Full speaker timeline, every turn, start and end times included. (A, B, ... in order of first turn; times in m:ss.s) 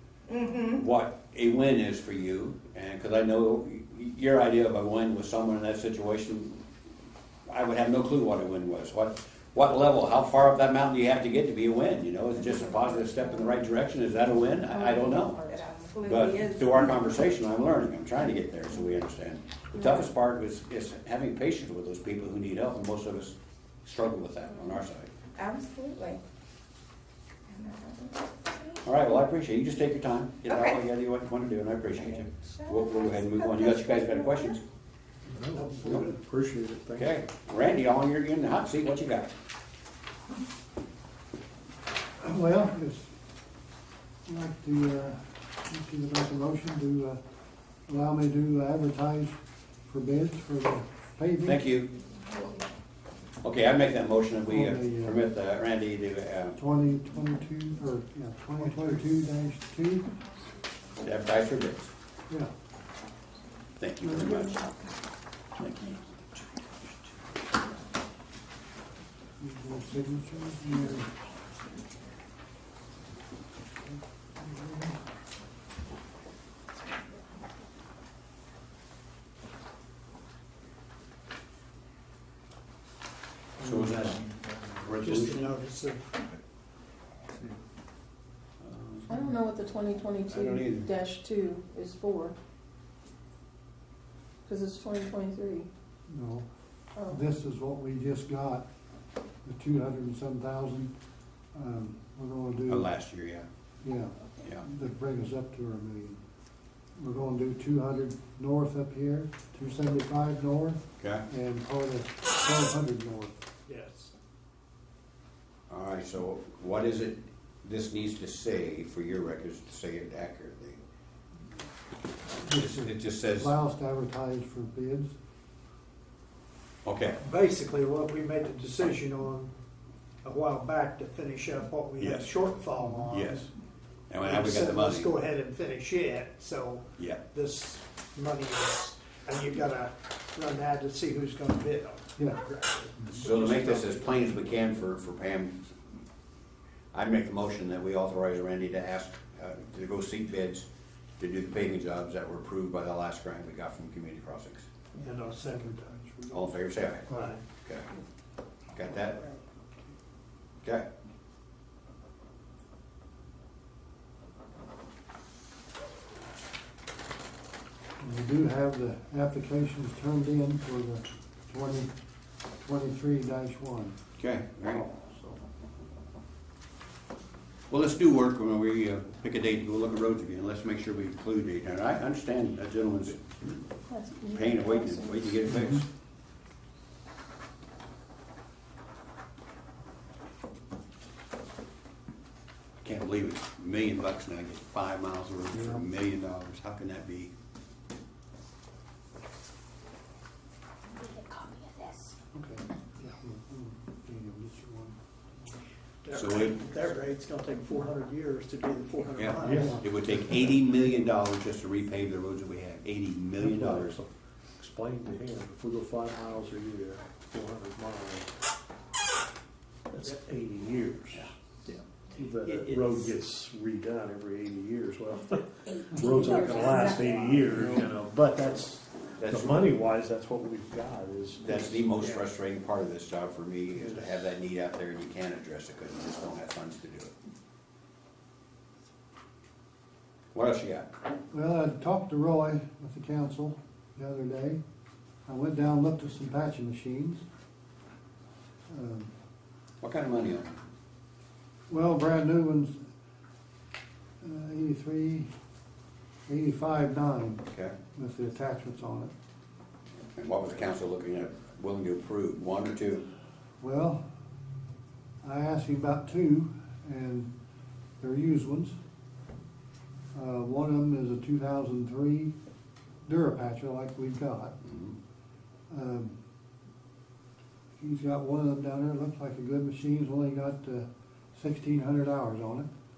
0:00.3-0:00.8 A
0:00.7-0:06.6 B
0:07.5-0:25.1 B
0:14.7-0:16.8 A
0:25.4-0:26.2 A
0:27.5-0:28.8 A
0:28.8-0:34.6 B
0:30.5-0:30.8 A
0:32.0-0:34.6 A
0:35.3-0:37.1 C
0:35.5-0:36.1 D
0:36.9-0:39.3 B
0:42.2-0:43.1 E
0:44.2-0:47.2 E
0:47.9-0:51.6 E
0:51.4-0:51.9 B
0:53.4-0:56.6 B
0:54.5-0:55.2 E
0:56.6-1:00.1 E
1:01.0-1:01.9 B
1:03.8-1:04.6 B
1:05.6-1:06.0 B
1:09.4-1:11.1 E
1:14.4-1:15.0 E
1:23.6-1:25.6 B
1:25.0-1:26.2 D
1:28.6-1:29.1 B
1:29.1-1:32.4 F
1:30.3-1:30.9 B
1:34.4-1:35.7 F
1:36.1-1:36.4 E
1:37.0-1:38.6 E
1:39.4-1:40.9 E
1:41.5-1:42.9 E
1:42.7-1:43.5 B
1:43.8-1:46.2 E
1:47.0-1:53.4 E
1:53.7-1:54.1 D
1:55.7-2:00.8 B
2:02.4-2:03.5 B
2:02.4-2:05.1 E
2:06.8-2:07.2 B
2:07.2-2:09.5 D
2:10.2-2:13.5 D
2:12.0-2:12.3 B
2:13.1-2:13.5 B
2:14.1-2:15.1 B
2:14.2-2:24.6 D
2:22.2-2:22.4 E
2:23.1-2:25.8 B
2:26.9-2:30.6 B
2:31.2-2:34.6 B
2:35.0-2:36.1 D
2:36.3-2:37.8 B
2:37.1-2:37.4 D
2:38.7-2:39.2 B
2:40.6-2:40.9 B
2:48.0-2:51.9 E
2:52.6-2:54.0 E
2:54.2-2:54.9 B
2:57.7-3:03.6 B
3:03.9-3:05.3 F
3:04.3-3:05.8 B
3:12.8-3:17.3 B
3:15.5-3:15.8 E
3:22.3-3:25.0 E
3:26.0-3:29.8 D
3:26.1-3:26.7 B
3:29.2-3:34.0 B
3:29.4-3:30.5 C
3:29.4-3:29.8 E
3:33.4-3:38.3 C
3:39.9-3:41.3 C
3:42.2-3:51.9 C
3:42.4-3:42.9 D
3:46.6-3:47.1 F
3:49.2-3:49.7 B
3:51.4-3:57.1 B
4:00.3-4:00.9 B
4:01.3-4:04.6 E
4:05.2-4:07.2 E
4:08.7-4:09.1 E
4:09.8-4:10.6 B
4:11.7-4:12.8 E
4:14.2-4:15.3 E
4:16.3-4:19.1 E
4:20.0-4:23.0 B
4:23.6-4:24.0 E
4:25.2-4:27.3 E
4:28.0-4:28.7 E
4:30.1-4:32.3 E
4:33.0-4:34.6 E
4:34.7-4:34.9 B
4:35.7-4:36.1 E
4:37.8-4:42.7 E